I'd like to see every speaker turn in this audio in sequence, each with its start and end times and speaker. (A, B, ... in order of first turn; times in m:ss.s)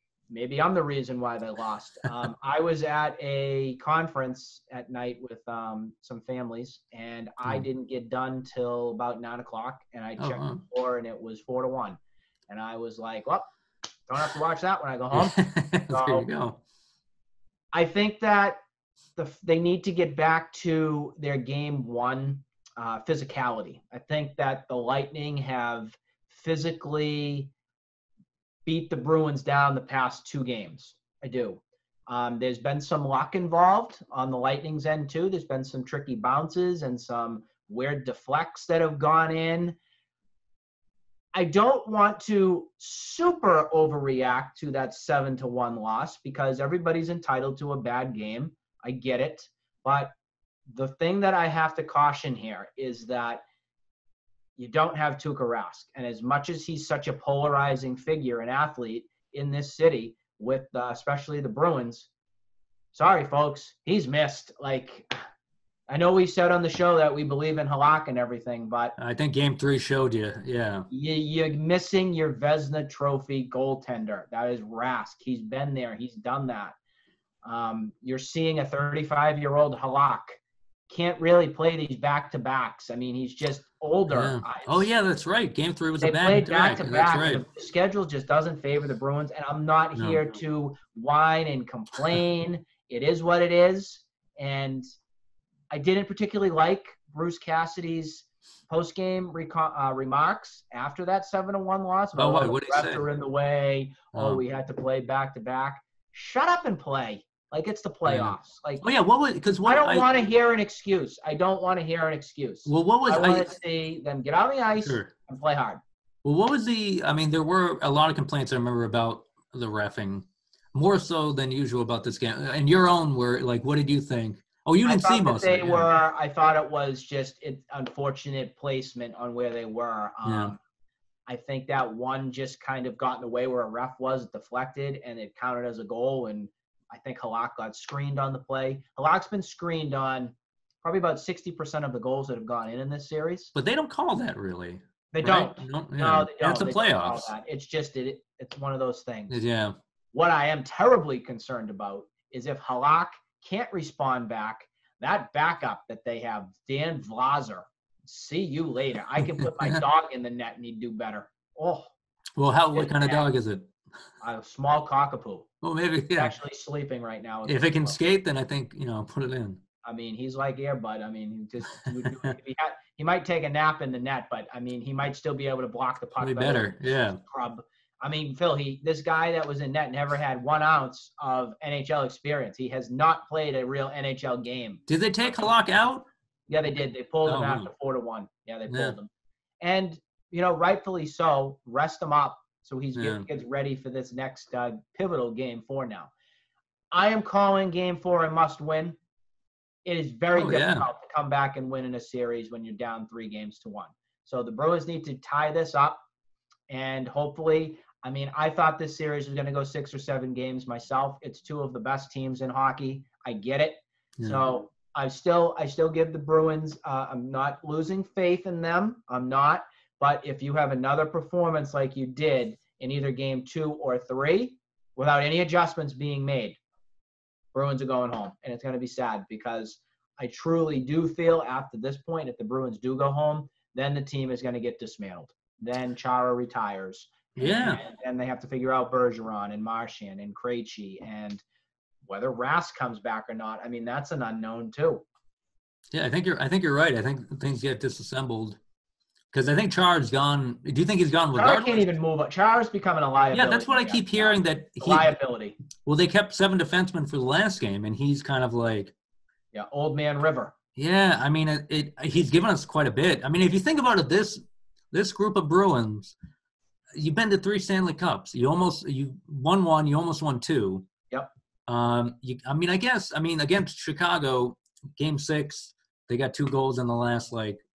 0:00.3-0:13.5 A
0:10.2-0:10.6 B
0:14.1-0:15.4 A
0:15.1-0:16.6 B
0:15.9-0:16.3 A
0:17.7-0:18.6 A
0:19.2-0:27.5 A
0:28.7-0:39.8 A
0:41.3-0:50.1 A
0:50.7-0:53.4 A
0:54.6-1:02.1 A
1:02.9-1:05.2 A
1:05.9-1:09.0 A
1:09.0-1:10.9 B
1:10.9-1:16.8 A
1:17.4-1:24.9 A
1:24.1-1:27.4 B
1:26.0-1:34.8 A
1:35.7-1:48.9 A
1:42.2-1:43.0 B
1:44.1-1:44.4 B
1:48.1-1:50.1 B
1:49.6-1:55.8 A
1:52.7-1:53.5 B
1:54.8-1:55.1 B
1:56.2-2:05.9 B
2:04.8-2:10.6 A
2:10.2-2:10.5 B
2:11.3-2:23.5 A
2:23.6-2:27.3 B
2:25.1-2:29.4 A
2:29.3-2:29.8 B
2:30.1-2:41.9 A
2:39.4-2:39.8 B
2:42.4-2:43.7 B
2:42.7-2:43.3 A
2:44.2-2:45.5 A
2:45.6-2:46.4 B
2:46.2-2:48.0 A
2:47.5-2:49.6 B
2:49.8-3:04.8 A
2:56.2-2:57.2 B
3:04.9-3:06.1 B
3:06.5-3:09.1 A
3:07.3-3:07.7 B
3:08.7-3:09.0 B
3:09.6-3:16.1 A
3:13.0-3:13.3 B
3:16.9-3:19.0 A
3:19.8-3:26.0 A
3:20.4-3:20.9 B
3:26.7-3:46.6 A
3:47.5-4:01.4 A
3:57.4-3:57.8 B
4:02.1-4:05.0 A
4:05.9-4:08.6 B
4:09.3-4:11.9 B
4:11.4-4:15.6 A
4:13.3-4:15.1 B
4:15.8-4:18.9 B
4:19.5-4:20.5 A
4:20.8-4:26.2 B
4:26.9-4:30.9 B
4:31.7-4:37.6 B